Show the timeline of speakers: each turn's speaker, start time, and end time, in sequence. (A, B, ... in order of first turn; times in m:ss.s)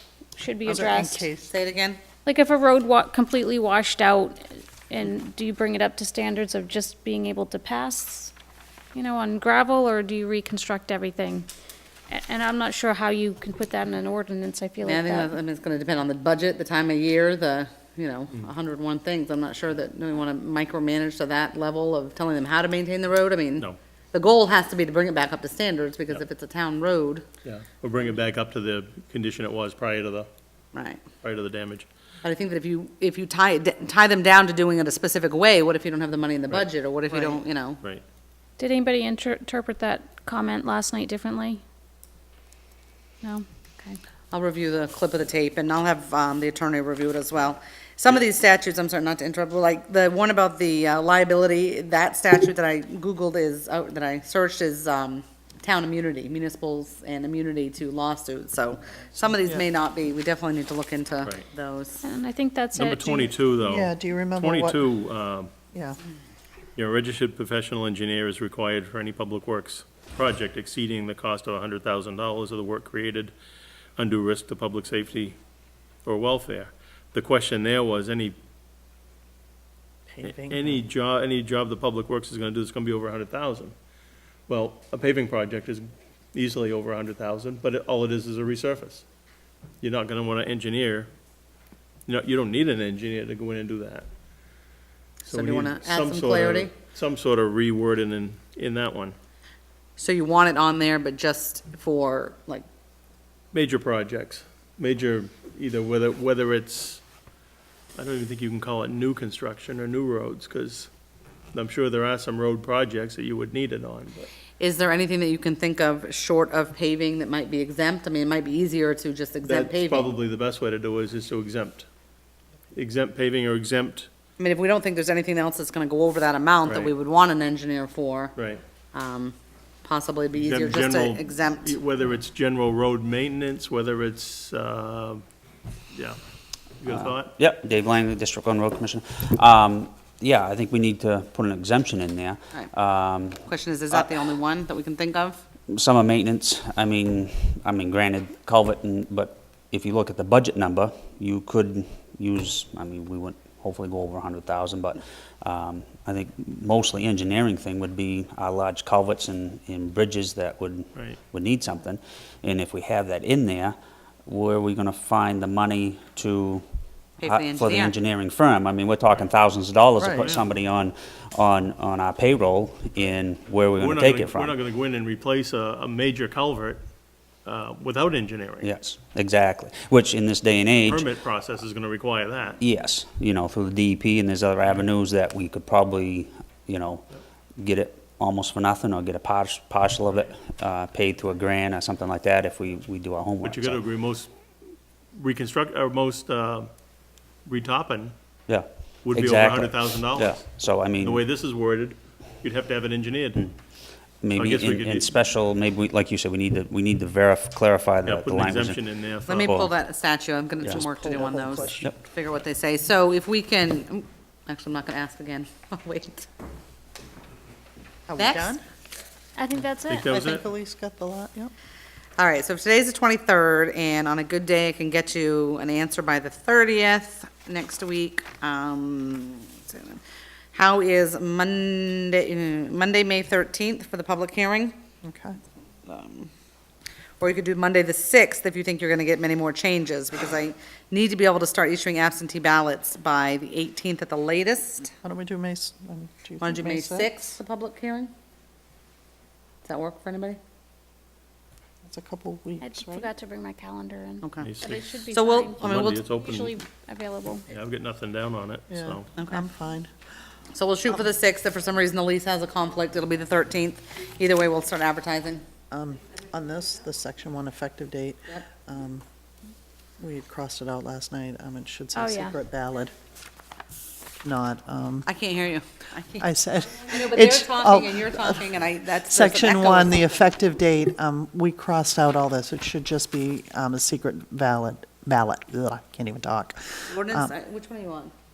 0:00.4-0:01.3 A
0:00.6-0:01.5 B
0:01.4-0:02.0 C
0:02.2-0:08.3 A
0:08.9-0:11.5 A
0:12.1-0:15.4 A
0:14.8-0:27.2 C
0:27.4-0:30.3 D
0:30.7-0:31.0 C
0:31.2-0:31.9 D
0:32.2-0:37.8 C
0:37.1-0:37.4 B
0:38.6-0:41.6 A
0:43.2-0:44.0 A
0:44.3-1:02.0 C
1:02.0-1:03.3 A
1:02.7-1:05.5 D
1:03.6-1:04.8 B
1:06.8-1:13.3 D
1:14.0-1:15.4 D
1:16.0-1:18.4 D
1:20.1-1:20.8 B
1:20.2-1:23.7 D
1:24.5-1:29.0 D
1:29.8-1:31.1 D
1:32.0-1:34.1 D
1:35.2-1:39.2 D
1:35.3-1:36.7 C
1:40.0-1:42.6 C
1:43.5-1:47.0 D
1:48.0-1:50.9 D
1:51.5-1:54.3 D
1:54.6-2:00.2 C
1:59.4-2:01.9 D
2:02.7-2:04.1 D
2:04.4-2:08.3 C
2:06.6-2:06.9 D
2:08.4-2:08.6 D
2:08.9-2:11.8 C
2:10.3-2:15.2 D
2:15.9-2:16.2 D
2:16.8-2:17.3 D
2:16.9-2:24.1 E
2:23.5-2:25.4 C
2:25.7-2:46.6 E
2:47.2-2:47.9 C
2:47.2-2:54.5 E
2:50.1-2:50.4 D
2:53.7-2:56.8 D
2:57.4-2:58.7 D
2:58.6-3:01.1 E
3:00.8-3:02.6 D
3:02.6-3:07.0 E
3:07.6-3:13.8 E
3:13.4-3:14.3 D
3:15.1-3:16.7 D
3:17.4-3:18.1 D
3:18.5-3:21.3 E
3:19.0-3:23.4 D
3:24.2-3:28.8 E
3:24.3-3:25.1 D
3:28.0-3:29.6 D
3:29.3-3:36.3 C
3:29.3-3:29.7 E
3:30.6-3:31.9 B
3:38.1-3:38.6 B
3:38.1-3:38.6 C
3:39.4-3:40.2 A
3:39.9-3:40.4 D
3:39.9-3:41.5 B
3:42.2-3:50.0 C
3:50.5-3:54.8 C
3:55.0-3:55.4 B
3:55.8-3:56.3 C
3:57.2-4:04.9 C
4:05.0-4:07.1 B
4:06.4-4:08.1 C
4:09.6-4:10.4 C
4:11.8-4:13.1 B
4:12.6-4:17.5 A
4:14.2-4:14.5 C
4:14.4-4:15.0 D
4:15.1-4:16.0 C
4:15.6-4:16.6 D
4:17.5-4:19.1 D
4:18.7-4:19.9 B
4:19.2-4:19.4 C
4:20.5-4:25.4 C
4:25.7-4:29.0 B
4:30.0-4:32.9 B
4:31.9-4:32.4 A
4:34.2-4:35.1 B
4:35.0-4:40.3 C
4:36.2-4:38.5 B
4:39.1-4:47.3 B
4:46.9-4:48.1 C